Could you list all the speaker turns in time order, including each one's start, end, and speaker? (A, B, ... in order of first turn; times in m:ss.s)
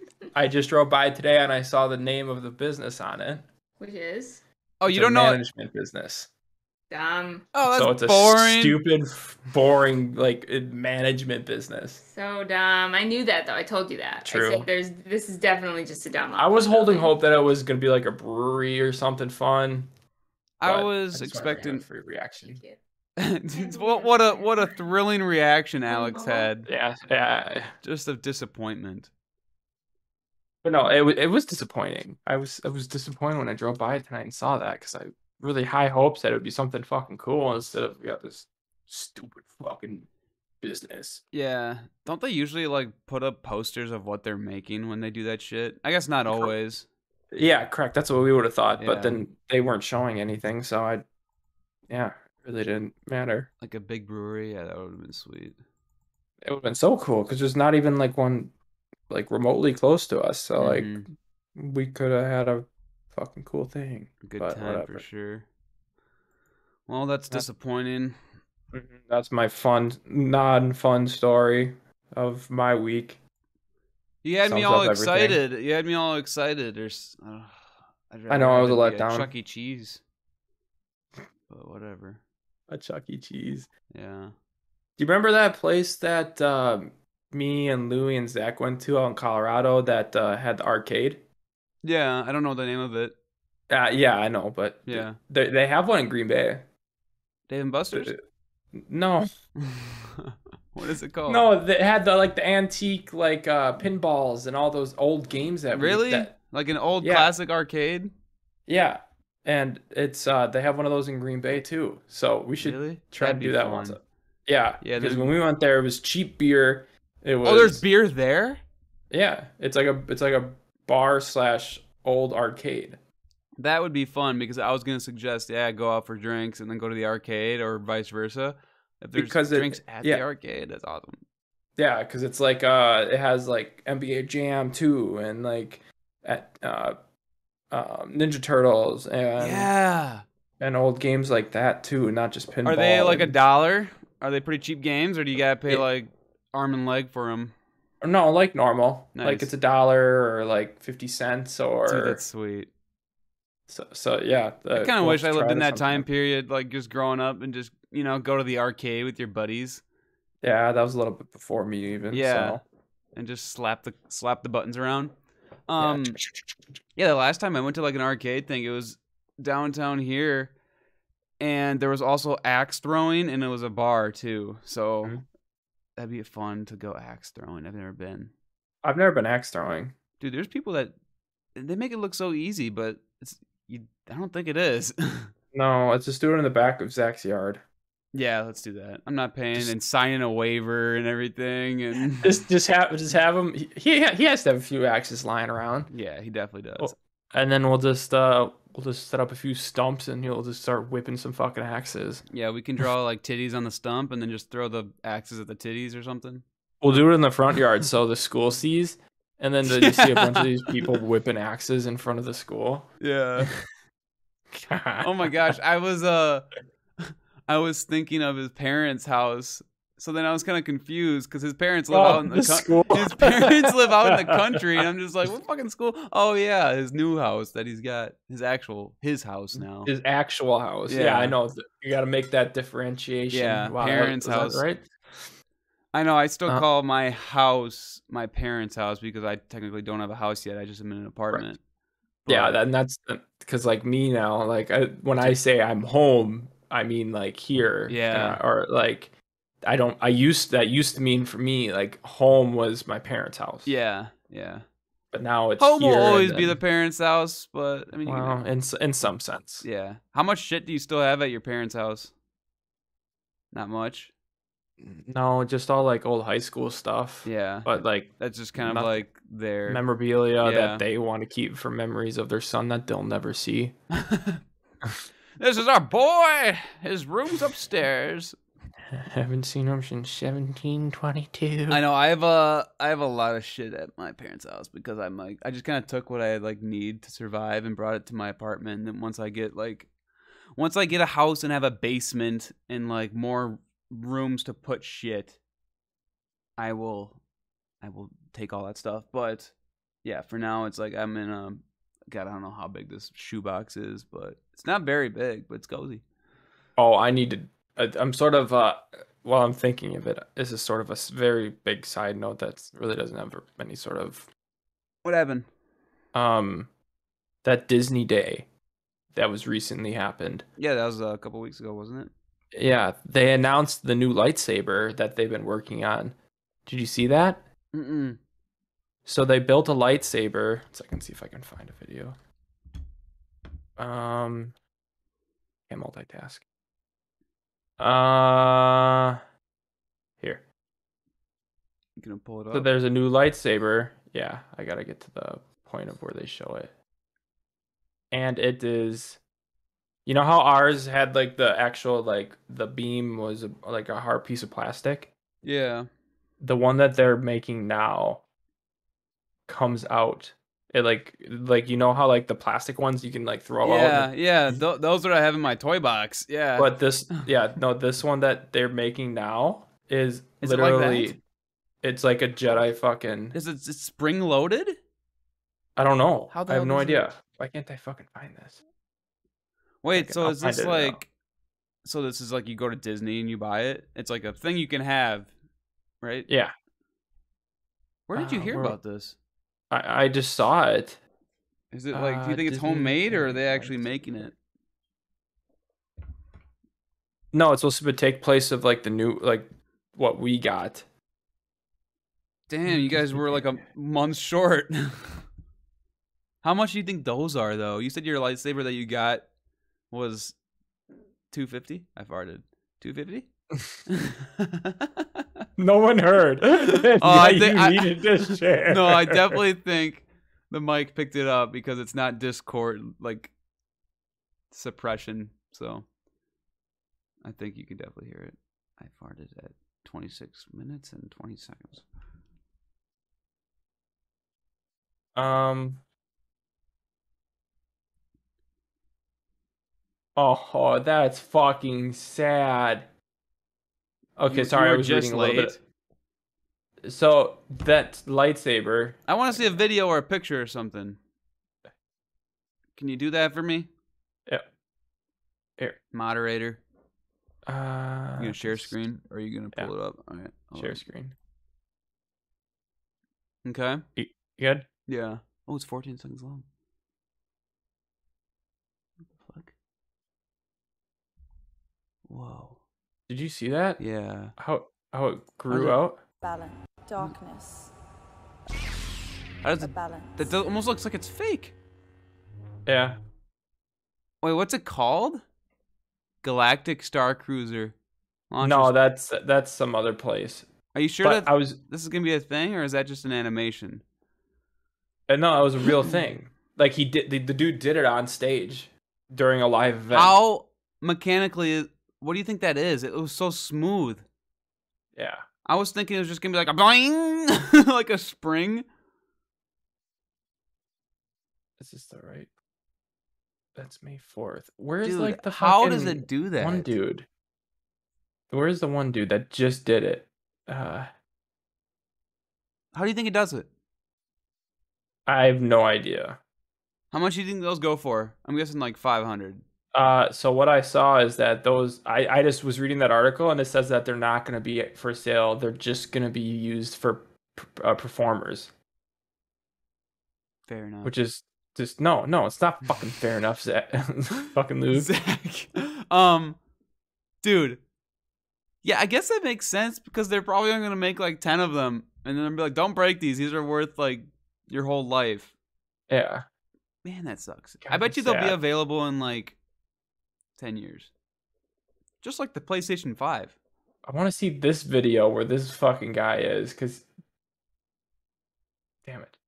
0:00.3-0:03.4 A
0:03.8-0:04.4 B
0:04.8-0:05.4 C
0:04.9-0:06.3 A
0:06.9-0:07.5 B
0:07.5-0:08.8 C
0:07.6-0:12.0 A
0:12.0-0:17.1 B
0:14.2-0:14.7 A
0:16.4-0:19.9 A
0:20.6-0:21.8 C
0:20.6-0:22.6 A
0:22.4-0:22.8 B
0:23.2-0:26.7 C
0:23.5-0:24.8 B
0:25.9-0:26.5 B
0:26.6-0:27.7 A
0:27.8-0:29.1 C
0:30.6-0:40.1 A
0:40.6-0:41.2 A
0:41.3-0:46.9 C
0:46.3-0:46.5 A
0:47.3-0:51.0 A
0:48.8-0:49.2 C
0:51.9-0:53.5 A
0:53.6-0:55.6 C
0:56.4-0:58.5 A
0:59.1-1:05.0 A
1:00.6-1:01.1 C
1:04.2-1:05.5 C
1:06.9-1:08.2 C
1:08.7-1:13.2 A
1:14.2-1:20.0 C
1:14.4-1:15.4 A
1:18.3-1:19.3 A
1:21.5-1:22.2 C
1:22.7-1:23.7 A
1:23.9-1:24.3 C
1:25.0-1:31.2 A
1:31.8-1:33.1 C
1:33.7-1:36.7 A
1:34.9-1:35.2 C
1:37.5-1:38.1 C
1:37.9-1:38.2 A
1:38.7-1:39.3 A
1:39.6-1:41.5 C
1:41.3-1:46.4 A
1:45.7-1:48.1 C
1:47.0-1:47.3 A
1:48.7-1:57.8 A
1:52.6-1:54.0 C
1:54.8-1:55.3 C
1:57.4-1:58.6 C
1:59.1-2:03.0 A
2:03.6-2:11.2 C
2:09.2-2:10.2 A
2:11.8-2:17.0 A
2:17.7-2:19.7 A
2:19.4-2:20.2 C
2:20.6-2:23.4 A
2:22.6-2:27.5 C
2:28.0-2:32.2 A
2:29.1-2:29.5 C
2:31.9-2:32.7 C
2:33.7-2:36.1 A
2:34.7-2:39.8 C
2:40.4-2:42.6 A
2:42.1-2:42.6 C
2:43.1-2:45.1 C
2:45.7-2:46.2 C
2:45.8-2:46.6 A
2:47.0-2:50.5 C
2:51.4-2:55.2 C
2:56.0-2:58.3 C
2:58.8-3:00.0 A
3:00.2-3:00.9 C
3:01.6-3:05.3 C
3:05.5-3:07.6 A
3:08.1-3:12.4 C
3:12.2-3:15.9 A
3:15.9-3:16.9 C
3:16.8-3:22.2 A
3:22.3-3:27.1 C
3:26.8-3:32.9 A
3:29.6-3:30.9 C
3:33.0-3:33.5 C
3:34.5-3:35.3 A
3:35.0-3:36.5 C
3:37.0-3:49.9 C
3:41.9-3:44.8 A
3:49.6-3:55.3 A
3:50.9-3:51.4 C
3:53.3-3:54.6 C
3:55.9-4:01.6 C
4:02.2-4:02.6 C
4:02.3-4:13.7 A
4:07.9-4:08.4 C
4:13.6-4:14.6 C
4:15.1-4:16.6 A
4:15.6-4:18.4 C
4:18.0-4:19.6 A
4:19.6-4:22.1 C
4:23.5-4:24.1 C
4:24.8-4:29.1 A
4:27.2-4:29.8 C
4:29.7-4:33.8 A
4:30.4-4:30.9 C
4:33.9-4:34.4 C
4:35.4-4:38.4 C
4:38.9-4:41.8 A
4:41.7-4:49.9 C
4:50.6-4:55.4 C
4:56.6-4:57.2 C
4:57.8-4:59.5 C
5:00.0-5:06.0 C
5:06.8-5:14.3 A
5:15.0-5:15.5 C
5:16.1-5:16.7 A
5:17.4-5:18.5 A
5:19.1-5:20.4 A
5:20.6-5:22.1 C
5:22.5-5:27.4 A
5:27.7-5:28.2 C
5:29.1-5:32.2 A
5:33.8-5:34.6 A
5:35.7-5:36.4 A
5:37.8-5:39.2 A
5:42.0-5:42.7 C
5:42.5-5:46.7 A
5:48.1-5:49.2 A
5:50.1-5:55.1 A
5:55.4-5:55.9 C
5:56.4-5:58.2 A
5:59.5-6:04.6 A
6:03.6-6:07.2 C
6:06.6-6:11.2 A
6:10.4-6:11.2 C
6:11.8-6:13.4 A
6:13.3-6:14.8 C
6:15.8-6:18.6 A
6:16.3-6:17.1 C
6:19.8-6:21.1 C
6:19.9-6:21.0 A
6:21.8-6:25.3 C
6:26.0-6:26.3 C
6:26.3-6:26.5 A
6:28.1-6:29.2 C
6:28.1-6:28.8 A
6:29.7-6:31.0 A
6:31.7-6:34.3 C
6:31.9-6:34.3 A
6:37.3-6:40.9 A
6:42.5-6:45.2 C
6:42.7-6:43.6 A
6:46.4-6:49.2 C
6:49.9-6:50.4 C
6:51.3-6:53.3 C
6:53.9-6:55.2 C
6:55.6-6:59.4 A
6:56.6-7:03.3 C
7:04.5-7:05.9 C
7:07.2-7:11.8 C
7:15.1-7:15.8 A
7:20.2-7:22.9 A
7:24.2-7:25.6 A
7:24.3-7:25.6 C
7:26.8-7:29.6 A
7:29.1-7:31.0 C
7:32.8-7:33.7 C
7:35.9-7:36.6 C
7:37.4-7:38.8 A
7:38.2-7:40.8 C
7:40.5-7:41.1 A
7:43.4-7:43.8 C
7:44.0-7:44.7 A
7:44.9-7:46.4 C
7:49.2-7:49.5 C
7:52.1-7:52.6 C
7:53.1-7:53.8 A
7:53.8-7:54.3 C
7:54.4-7:56.0 A
7:55.5-7:55.8 C
7:56.2-7:57.7 D
7:59.4-8:01.5 C
7:59.6-8:00.4 D
8:02.6-8:03.0 A
8:04.2-8:05.2 C
8:06.2-8:07.7 C
8:08.3-8:08.7 C
8:08.4-8:10.5 A
8:10.7-8:13.8 C
8:11.0-8:11.6 A
8:15.1-8:20.2 A
8:19.9-8:24.0 C
8:25.0-8:25.2 A
8:25.4-8:28.6 C
8:31.6-8:32.3 A
8:33.6-8:37.1 A
8:34.8-8:36.8 C
8:38.3-8:40.9 A
8:42.7-8:43.5 C
8:45.1-8:46.2 A
8:46.9-8:49.4 C
8:49.7-8:58.5 A
9:00.5-9:00.9 C
9:00.8-9:04.9 A
9:04.7-9:06.4 C
9:07.2-9:07.6 C
9:08.6-9:15.3 C
9:15.9-9:16.2 A
9:16.8-9:19.4 C
9:17.6-9:18.4 A
9:20.4-9:20.9 C
9:22.0-9:23.4 C
9:23.9-9:26.9 A
9:28.8-9:29.2 A